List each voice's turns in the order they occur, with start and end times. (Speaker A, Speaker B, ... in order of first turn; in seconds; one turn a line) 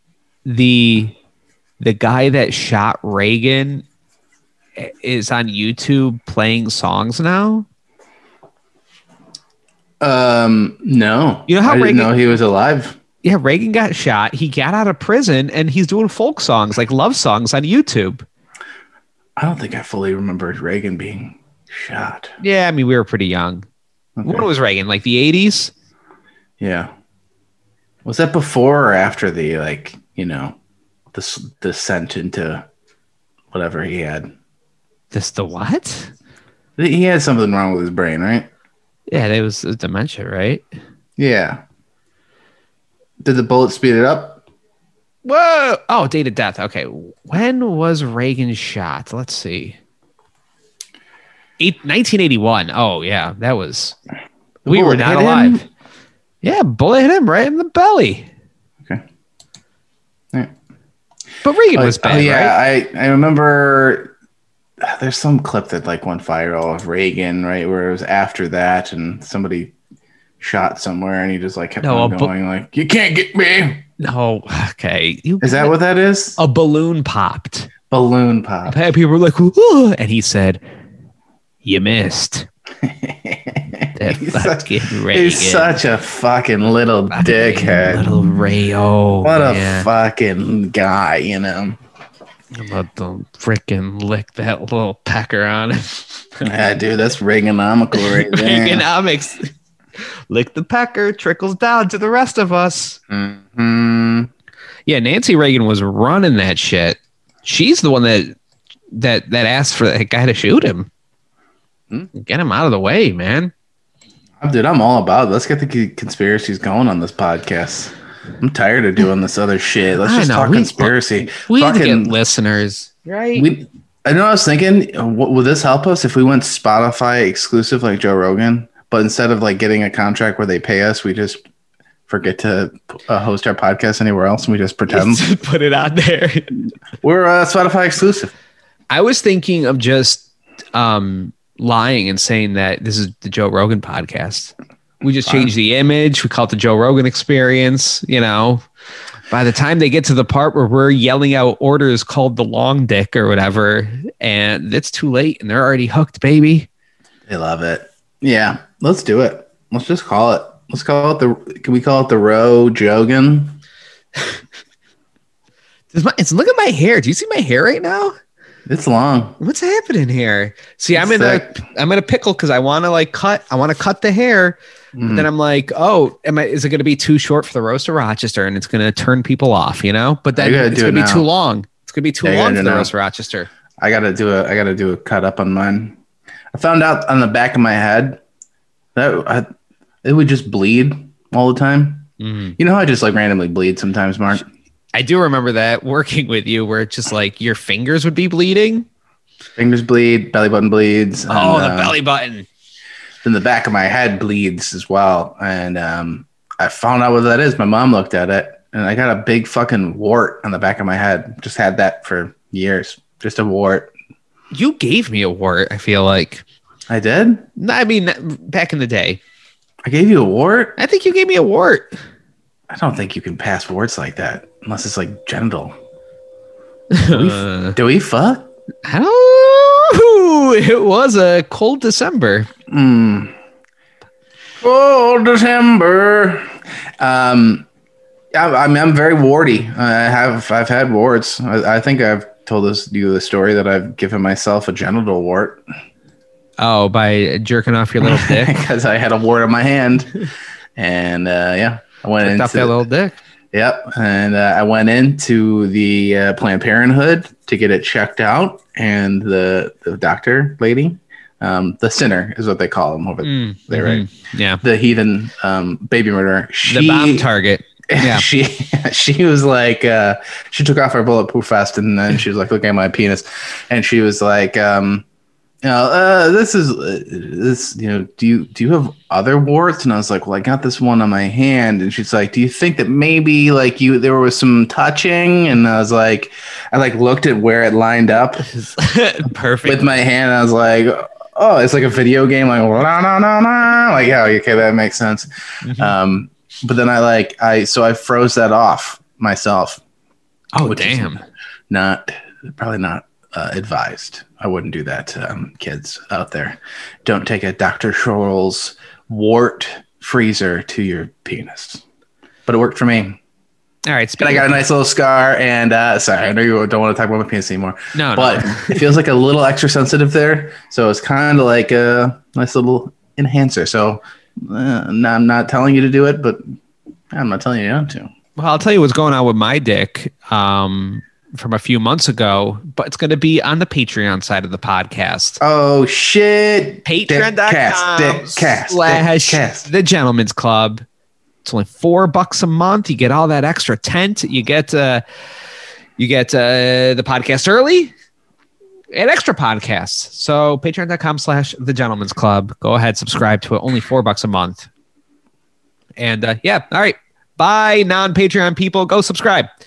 Speaker A: 0.4-1.1
Speaker A: 1.8-3.8
Speaker A: 4.8-7.7
Speaker B: 10.0-13.0
Speaker A: 11.5-12.3
Speaker A: 13.2-18.2
Speaker B: 19.4-22.3
Speaker A: 22.4-23.6
Speaker B: 24.2-24.5
Speaker A: 24.2-25.7
Speaker B: 26.6-26.9
Speaker B: 28.0-30.5
Speaker B: 31.1-32.6
Speaker B: 33.5-34.3
Speaker A: 35.1-36.1
Speaker B: 36.8-38.5
Speaker A: 39.1-40.6
Speaker B: 41.2-41.6
Speaker B: 43.2-44.4
Speaker A: 45.2-49.8
Speaker A: 51.6-54.0
Speaker B: 54.6-55.6
Speaker A: 54.7-55.6
Speaker A: 56.4-58.3
Speaker A: 61.4-62.5
Speaker B: 61.7-64.1
Speaker B: 64.8-69.7
Speaker B: 70.4-73.8
Speaker A: 71.8-72.3
Speaker A: 74.0-75.7
Speaker B: 75.4-76.4
Speaker A: 76.4-77.7
Speaker B: 77.9-78.8
Speaker A: 78.6-80.6
Speaker A: 81.6-82.5
Speaker B: 82.8-88.1
Speaker A: 84.0-85.8
Speaker A: 87.1-89.9
Speaker B: 89.2-91.8
Speaker A: 92.5-96.5
Speaker B: 96.4-98.8
Speaker A: 97.9-99.5
Speaker A: 100.3-103.0
Speaker B: 103.1-104.3
Speaker A: 104.8-108.3
Speaker A: 108.9-110.9
Speaker A: 112.1-113.5
Speaker B: 114.4-122.1
Speaker A: 120.0-123.5
Speaker B: 123.3-131.4
Speaker B: 132.1-135.3
Speaker A: 134.9-136.6
Speaker B: 137.0-138.3
Speaker A: 138.9-148.6
Speaker B: 145.2-145.5
Speaker A: 149.3-156.7
Speaker B: 157.3-163.6
Speaker A: 165.9-168.1
Speaker B: 168.7-169.4
Speaker A: 169.4-183.5
Speaker B: 170.9-171.5
Speaker B: 174.9-175.3
Speaker B: 180.3-181.3
Speaker B: 182.2-182.9
Speaker B: 183.8-185.9
Speaker B: 186.5-188.2
Speaker B: 188.9-189.5
Speaker B: 190.0-192.1
Speaker A: 192.2-192.6
Speaker B: 192.6-194.4
Speaker A: 194.9-198.9
Speaker B: 199.6-202.0
Speaker A: 201.3-202.5
Speaker B: 203.2-213.9
Speaker A: 214.5-216.4
Speaker B: 216.9-217.4
Speaker A: 217.6-219.2
Speaker B: 219.8-220.8
Speaker A: 220.8-221.9
Speaker B: 222.7-225.8
Speaker A: 226.9-227.8
Speaker B: 227.1-228.5
Speaker A: 228.8-232.5
Speaker B: 232.7-233.3
Speaker B: 234.6-237.7
Speaker B: 238.3-245.6
Speaker A: 246.6-248.5
Speaker B: 248.0-250.2
Speaker B: 250.8-252.8
Speaker A: 252.2-253.2
Speaker B: 253.5-264.1
Speaker A: 263.2-264.6
Speaker B: 264.6-267.3
Speaker A: 266.6-268.3
Speaker B: 267.9-275.0
Speaker B: 275.6-288.5
Speaker A: 288.5-289.9
Speaker B: 289.6-299.8
Speaker A: 295.6-295.9
Speaker A: 300.5-301.2
Speaker B: 300.6-301.1
Speaker B: 301.7-311.8
Speaker B: 312.4-313.2
Speaker A: 313.9-314.6
Speaker B: 314.2-326.4
Speaker A: 317.9-318.8
Speaker B: 327.1-328.1
Speaker A: 328.4-335.4
Speaker B: 335.4-339.7
Speaker A: 336.9-340.8
Speaker A: 341.4-345.0
Speaker A: 346.0-347.9
Speaker A: 348.9-354.7
Speaker A: 356.0-359.5